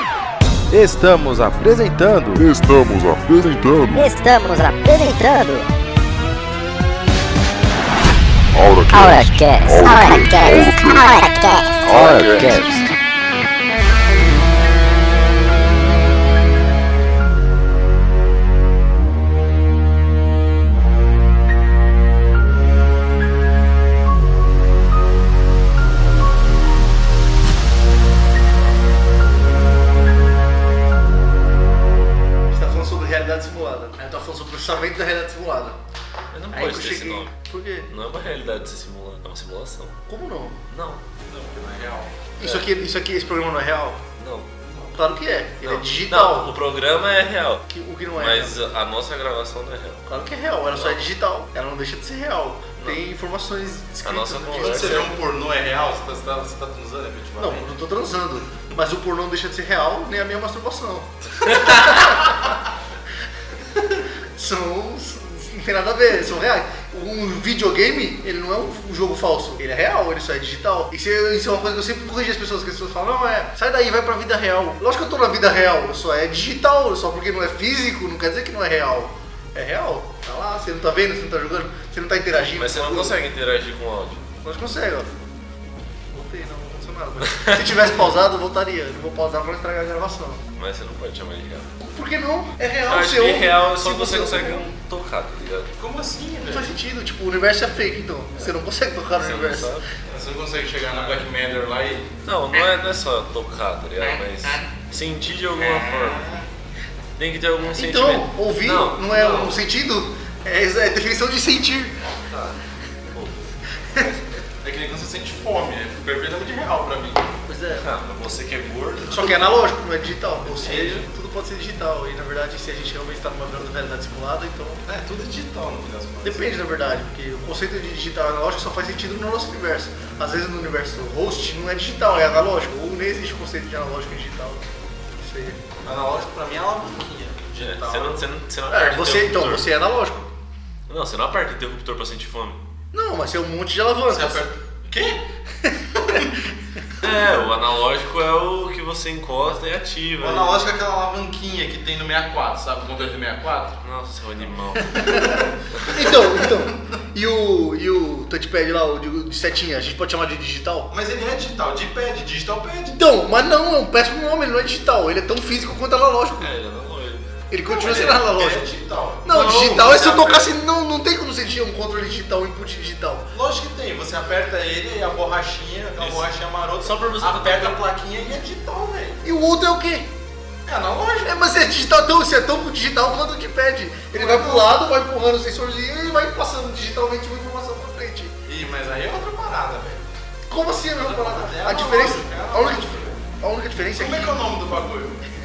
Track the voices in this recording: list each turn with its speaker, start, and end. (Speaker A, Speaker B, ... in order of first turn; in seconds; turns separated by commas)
Speaker A: 0.7-2.4, Speaker B: 2.4-4.1, Speaker C: 3.9-5.7, Speaker B: 8.5-11.1, Speaker C: 8.9-12.8, Speaker B: 11.8-12.9, Speaker A: 11.9-12.7, Speaker D: 32.5-35.8, Speaker E: 36.3-37.3, Speaker D: 36.5-37.9, Speaker E: 37.9-40.0, Speaker D: 40.1-40.6, Speaker E: 40.7-41.0, Speaker A: 41.3-42.1, Speaker D: 42.4-44.0, Speaker E: 42.4-42.7, Speaker E: 44.2-44.5, Speaker A: 44.6-45.0, Speaker D: 44.9-46.5, Speaker E: 45.6-47.6, Speaker D: 47.7-48.6, Speaker E: 48.2-50.0, Speaker D: 50.1-55.1, Speaker E: 50.7-51.0, Speaker E: 54.0-55.1, Speaker A: 54.5-57.7, Speaker D: 57.4-62.5, Speaker E: 61.4-62.2, Speaker D: 63.7-83.2, Speaker E: 82.3-84.2, Speaker D: 84.4-85.1, Speaker D: 86.1-90.4, Speaker E: 87.2-87.9, Speaker E: 90.6-91.7, Speaker D: 91.9-94.7, Speaker E: 92.9-95.7, Speaker A: 95.8-96.7, Speaker D: 96.5-99.8, Speaker E: 99.1-99.8, Speaker A: 100.0-102.1, Speaker E: 102.2-106.4, Speaker E: 107.2-109.6, Speaker D: 107.7-112.0, Speaker E: 112.0-112.6, Speaker E: 113.1-114.2, Speaker A: 114.6-117.3, Speaker D: 117.5-117.9, Speaker E: 117.7-119.6, Speaker D: 119.1-124.8, Speaker A: 120.5-121.1, Speaker A: 124.8-126.6, Speaker D: 126.2-134.6, Speaker D: 135.2-135.6, Speaker A: 135.8-138.3, Speaker E: 137.6-139.8, Speaker D: 138.7-140.3, Speaker E: 140.9-142.6, Speaker D: 142.9-144.4, Speaker A: 144.1-145.2, Speaker D: 145.6-146.3, Speaker E: 147.0-150.5, Speaker A: 150.2-153.8, Speaker E: 153.8-156.4, Speaker D: 154.9-160.9, Speaker A: 155.2-155.5, Speaker A: 160.9-163.0, Speaker D: 162.9-166.5, Speaker E: 166.4-167.3, Speaker D: 167.5-168.7, Speaker A: 167.7-170.4, Speaker D: 169.2-173.3, Speaker E: 169.4-170.3, Speaker A: 173.3-179.2, Speaker E: 176.0-176.3, Speaker E: 176.8-177.8, Speaker D: 179.2-180.1, Speaker A: 180.6-181.4, Speaker D: 181.2-188.4, Speaker A: 184.1-184.7, Speaker A: 188.4-190.1, Speaker D: 190.5-194.4, Speaker A: 191.0-193.2, Speaker A: 193.9-195.2